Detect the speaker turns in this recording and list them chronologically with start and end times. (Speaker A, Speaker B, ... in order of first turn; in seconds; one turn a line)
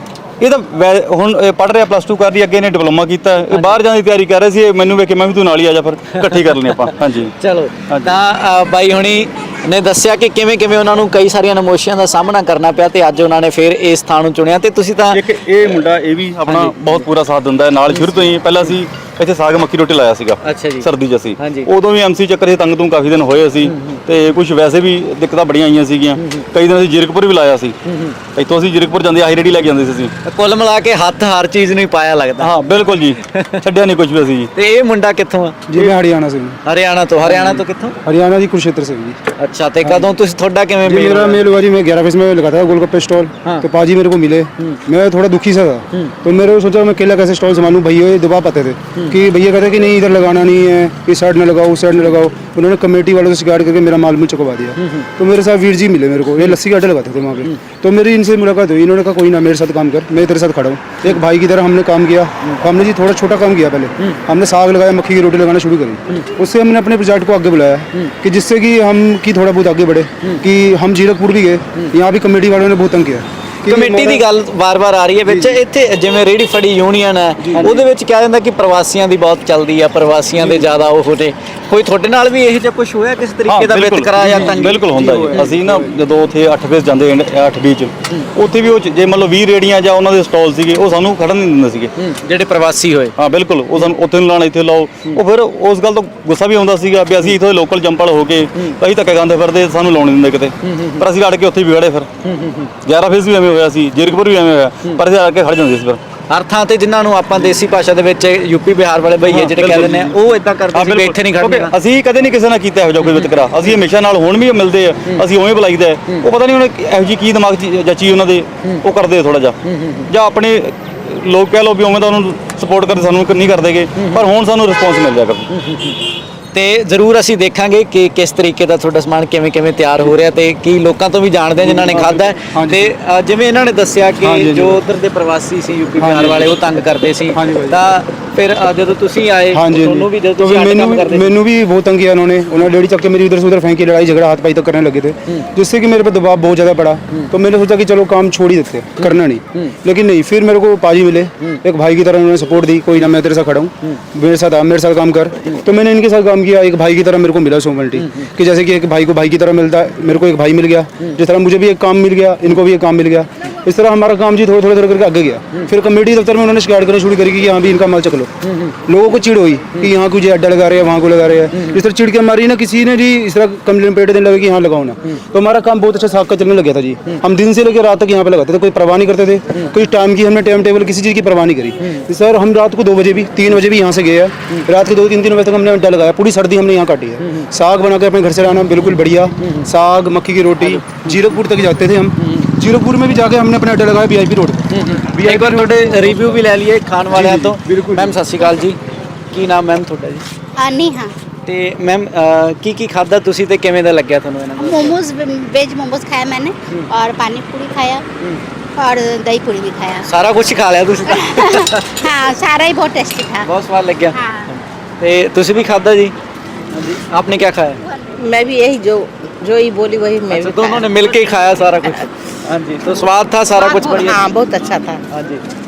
Speaker A: 0.4-7.3
Speaker B: 6.5-15.2
Speaker A: 15.1-27.8
Speaker B: 16.5-17.1
Speaker B: 20.4-21.7
Speaker B: 23.6-24.0
Speaker B: 26.2-26.4
Speaker B: 27.9-28.2
Speaker A: 28.4-30.1
Speaker B: 30.2-32.5
Speaker A: 32.4-34.5
Speaker B: 33.1-33.6
Speaker B: 34.5-35.6
Speaker C: 35.7-36.6
Speaker B: 36.6-38.0
Speaker C: 38.0-39.2
Speaker B: 39.4-41.4
Speaker C: 40.8-74.2
Speaker B: 54.8-55.1
Speaker B: 73.7-85.5
Speaker C: 75.3-75.6
Speaker C: 77.4-77.8
Speaker C: 80.4-80.7
Speaker A: 83.5-91.9
Speaker C: 84.2-85.9
Speaker B: 92.0-93.1
Speaker A: 93.2-102.1
Speaker B: 100.7-101.0
Speaker B: 102.2-102.7
Speaker A: 102.8-106.0
Speaker B: 106.3-111.7
Speaker A: 109.3-110.2
Speaker A: 110.7-125.5
Speaker B: 119.7-120.0
Speaker B: 124.0-124.2
Speaker B: 125.5-126.0
Speaker B: 126.5-141.3
Speaker C: 131.8-132.9
Speaker C: 134.2-134.8
Speaker C: 136.0-136.6
Speaker C: 137.3-137.8
Speaker C: 139.5-168.3
Speaker C: 168.9-196.2
Speaker B: 190.7-191.0
Speaker B: 194.7-198.8
Speaker C: 197.1-198.2
Speaker B: 199.3-200.2
Speaker D: 200.6-201.1
Speaker B: 201.5-205.0
Speaker D: 204.6-208.1
Speaker D: 208.8-210.1
Speaker B: 210.1-212.1
Speaker D: 211.1-213.5
Speaker B: 213.4-216.1
Speaker D: 214.2-214.4
Speaker B: 216.7-217.8
Speaker E: 218.2-220.9
Speaker B: 220.3-224.3
Speaker E: 223.9-225.0
Speaker B: 225.1-225.4